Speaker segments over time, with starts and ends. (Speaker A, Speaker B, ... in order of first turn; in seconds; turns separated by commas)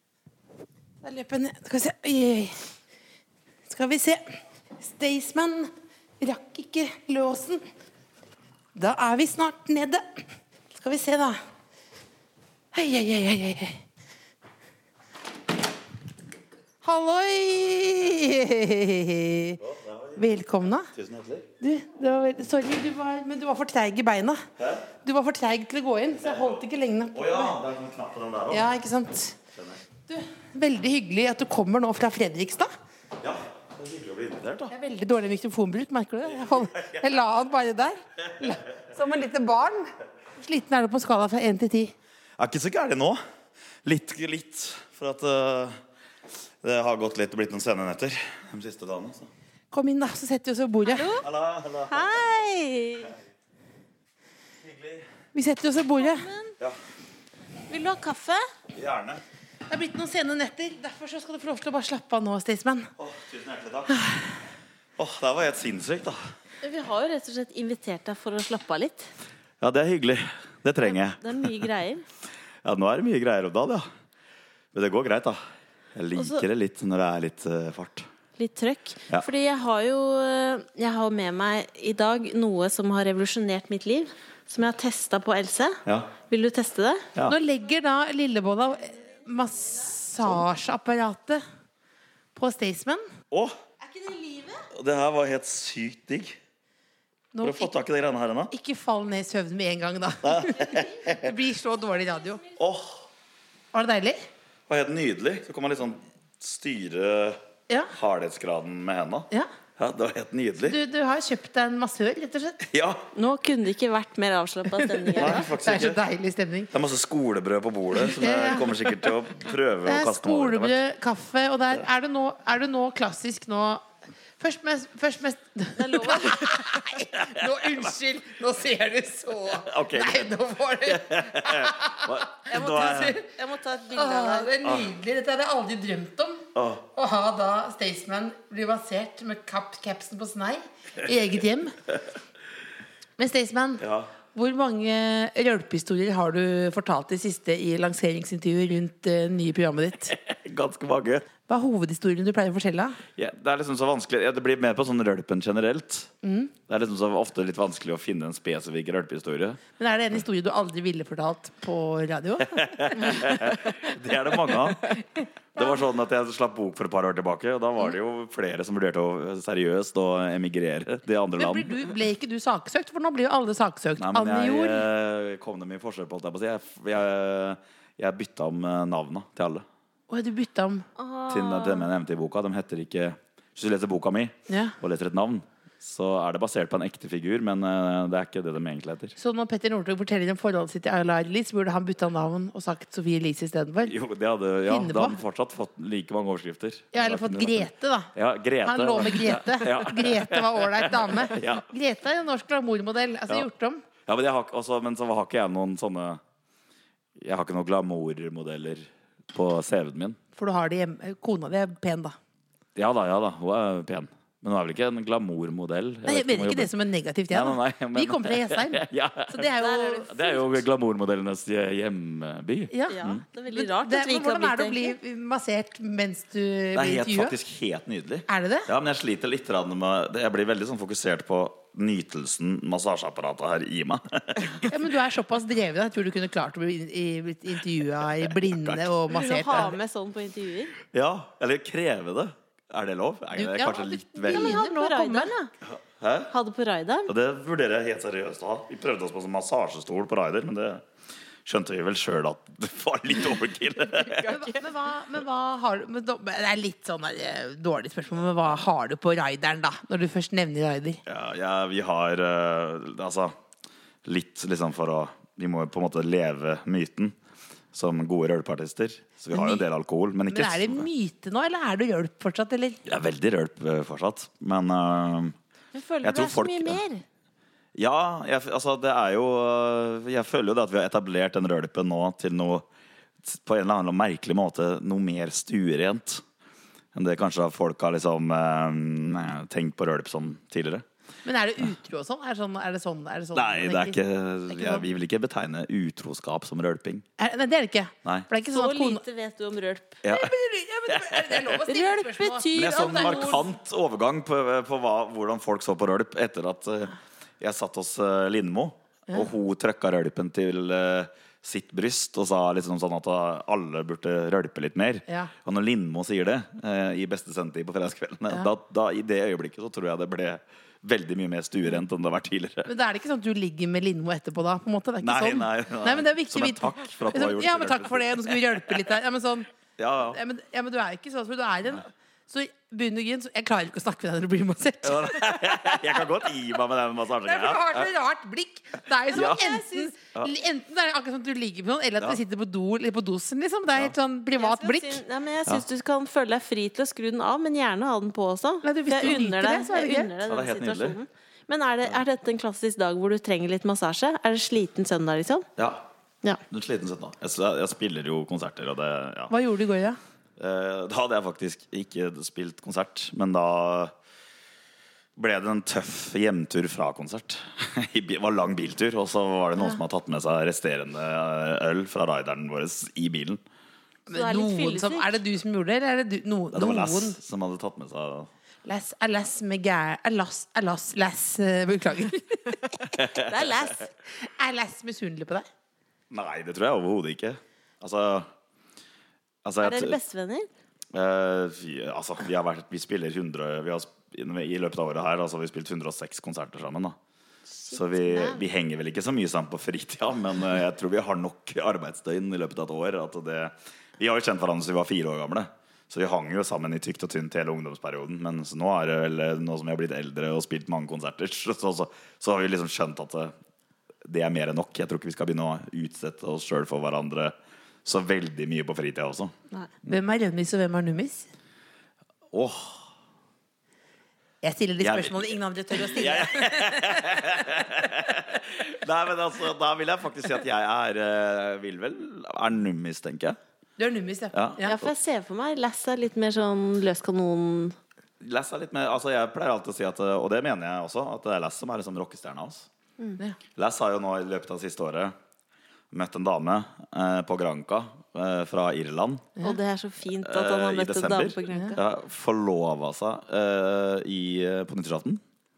Speaker A: 1.0-2.7, Speaker A: 3.7-4.2, Speaker A: 4.8-7.6, Speaker A: 8.7-11.4, Speaker A: 12.7-13.8, Speaker A: 16.8-19.6, Speaker B: 19.6-20.2, Speaker A: 20.1-20.9, Speaker B: 20.9-21.5, Speaker A: 21.6-24.4, Speaker B: 24.6-24.9, Speaker A: 25.0-27.6, Speaker B: 26.2-26.6, Speaker B: 27.1-28.6, Speaker A: 28.5-29.4, Speaker B: 29.5-29.8, Speaker A: 30.1-32.7, Speaker B: 33.2-34.7, Speaker A: 34.7-41.9, Speaker B: 42.4-43.2, Speaker B: 43.8-45.8, Speaker B: 46.6-49.3, Speaker A: 49.7-51.1, Speaker C: 50.8-51.2, Speaker B: 51.2-52.3, Speaker C: 51.9-53.1, Speaker B: 54.6-55.1, Speaker A: 55.3-56.3, Speaker C: 56.0-56.6, Speaker C: 57.7-58.5, Speaker B: 58.7-59.2, Speaker A: 59.7-62.9, Speaker B: 63.0-64.1, Speaker B: 65.0-66.3, Speaker C: 66.6-69.1, Speaker B: 69.6-71.5, Speaker C: 70.8-72.0, Speaker B: 72.6-73.9, Speaker B: 74.7-75.4, Speaker B: 75.9-78.1, Speaker C: 76.1-76.4, Speaker C: 78.4-87.1, Speaker B: 85.8-86.1, Speaker A: 87.2-91.4, Speaker A: 92.3-93.0, Speaker B: 93.3-93.5, Speaker C: 93.8-94.6, Speaker B: 94.7-96.4, Speaker A: 97.3-97.7, Speaker B: 97.4-98.5, Speaker A: 98.5-102.4, Speaker B: 100.2-101.2, Speaker B: 102.5-103.1, Speaker A: 103.7-104.2, Speaker B: 104.7-107.4, Speaker B: 107.9-110.8, Speaker A: 110.6-112.6, Speaker B: 112.7-113.0, Speaker C: 113.1-115.5, Speaker A: 114.8-116.7, Speaker B: 115.2-116.0, Speaker B: 116.7-120.8, Speaker A: 118.1-119.0, Speaker A: 119.8-123.8, Speaker A: 124.4-133.2, Speaker C: 125.8-126.7, Speaker B: 127.1-127.8, Speaker B: 129.5-130.3, Speaker B: 130.8-133.2, Speaker C: 132.5-134.5, Speaker A: 133.9-141.8, Speaker B: 134.6-134.9, Speaker B: 136.5-136.8, Speaker A: 143.2-150.1, Speaker B: 143.8-144.1, Speaker B: 150.1-151.3, Speaker A: 151.5-153.0, Speaker B: 153.2-156.1, Speaker A: 156.2-156.5, Speaker B: 156.7-159.6, Speaker A: 159.8-163.5, Speaker B: 162.4-165.0, Speaker B: 165.5-171.8, Speaker A: 171.4-174.8, Speaker B: 174.0-179.7, Speaker A: 180.1-180.9, Speaker C: 181.0-181.9, Speaker B: 181.3-189.1, Speaker A: 184.5-184.7, Speaker A: 189.2-193.9, Speaker B: 193.9-201.7, Speaker A: 194.6-195.2, Speaker A: 196.9-198.1, Speaker A: 198.6-203.8, Speaker B: 204.0-206.2, Speaker B: 207.2-210.2, Speaker A: 210.3-212.2, Speaker B: 212.8-216.7, Speaker A: 216.0-220.6, Speaker B: 217.3-223.2, Speaker C: 219.7-220.0, Speaker C: 222.9-224.9, Speaker A: 223.5-227.3, Speaker B: 226.7-234.8, Speaker A: 228.3-228.7, Speaker A: 234.7-239.7, Speaker B: 238.2-238.9, Speaker C: 239.1-240.8, Speaker B: 240.9-244.6, Speaker A: 243.3-245.3, Speaker C: 244.2-245.5, Speaker B: 245.7-246.3, Speaker C: 246.3-247.1, Speaker B: 247.1-250.8, Speaker B: 251.4-254.3, Speaker C: 254.0-254.6, Speaker A: 254.3-261.0, Speaker B: 261.1-263.3, Speaker B: 264.0-267.1, Speaker B: 267.7-270.9, Speaker A: 269.3-269.6, Speaker A: 270.3-272.8, Speaker B: 272.9-275.4, Speaker C: 275.7-277.0, Speaker B: 276.0-276.8, Speaker B: 277.7-282.7, Speaker B: 283.2-286.2, Speaker B: 286.9-290.8, Speaker A: 291.2-294.0, Speaker B: 293.3-297.1, Speaker A: 294.5-294.9, Speaker A: 297.2-299.0, Speaker C: 298.5-300.0, Speaker B: 300.0-300.3, Speaker A: 300.1-303.5, Speaker B: 300.9-301.6, Speaker C: 301.7-303.5, Speaker B: 302.5-322.7, Speaker A: 322.7-329.5, Speaker B: 325.0-328.8, Speaker B: 329.8-330.2, Speaker A: 330.0-336.1, Speaker B: 334.8-337.9, Speaker A: 337.2-345.0, Speaker C: 339.1-339.9, Speaker B: 339.1-340.3, Speaker C: 344.4-355.5, Speaker A: 348.6-350.2, Speaker B: 350.3-351.0, Speaker B: 355.6-355.8, Speaker B: 356.5-359.3, Speaker A: 359.3-360.0, Speaker B: 360.4-363.9, Speaker B: 365.2-373.4, Speaker A: 374.1-377.2, Speaker C: 374.1-375.1, Speaker B: 376.5-378.3, Speaker A: 378.6-382.6, Speaker B: 382.9-383.4, Speaker C: 382.9-383.9, Speaker A: 384.1-385.5, Speaker B: 386.1-388.3, Speaker B: 389.4-390.0, Speaker C: 389.6-390.5, Speaker B: 390.9-397.0, Speaker C: 397.5-398.4, Speaker B: 397.7-413.3, Speaker B: 414.0-419.3, Speaker A: 419.9-421.3, Speaker B: 422.3-422.9, Speaker A: 424.4-427.3, Speaker B: 424.8-433.4, Speaker A: 433.8-434.8, Speaker B: 434.3-434.9, Speaker C: 434.6-437.8, Speaker B: 438.2-442.7, Speaker B: 443.5-445.1, Speaker B: 445.9-449.3, Speaker C: 449.4-451.8, Speaker B: 450.2-455.2